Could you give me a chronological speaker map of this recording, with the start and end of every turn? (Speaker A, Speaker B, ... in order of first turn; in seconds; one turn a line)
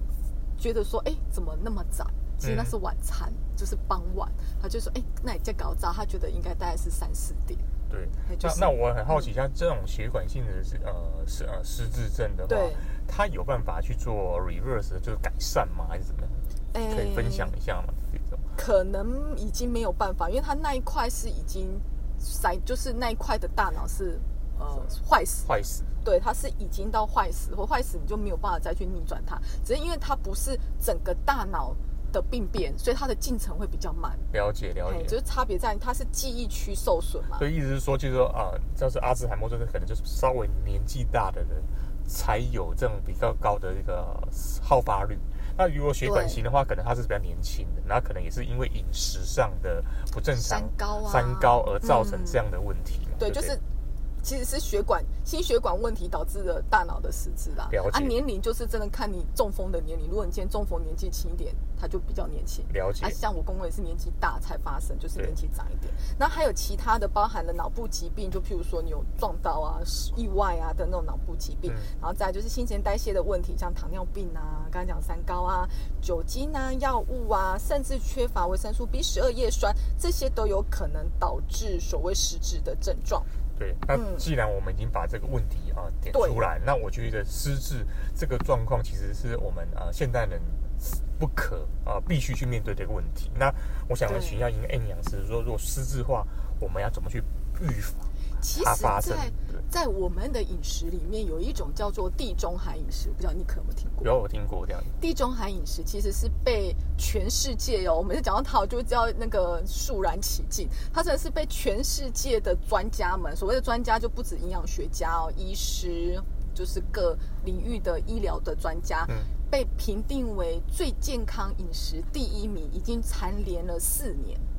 Speaker A: 0.6-7.6
Speaker B: 2.4-2.7
Speaker B: 7.9-18.4
Speaker A: 8.2-9.3
Speaker A: 12.5-12.9
Speaker A: 16.7-17.5
Speaker A: 18.6-25.5
Speaker B: 25.4-25.9
Speaker A: 26.0-34.3
Speaker B: 34.3-35.1
Speaker A: 34.8-37.4
Speaker B: 37.4-53.5
Speaker A: 46.0-46.4
Speaker A: 50.3-52.4
Speaker A: 53.2-53.6
Speaker A: 54.2-83.3
Speaker B: 57.7-58.1
Speaker B: 62.7-63.2
Speaker B: 83.6-99.6
Speaker A: 83.9-84.3
Speaker A: 86.1-86.4
Speaker A: 94.0-94.4
Speaker A: 98.4-104.1
Speaker B: 104.0-104.9
Speaker A: 105.0-124.4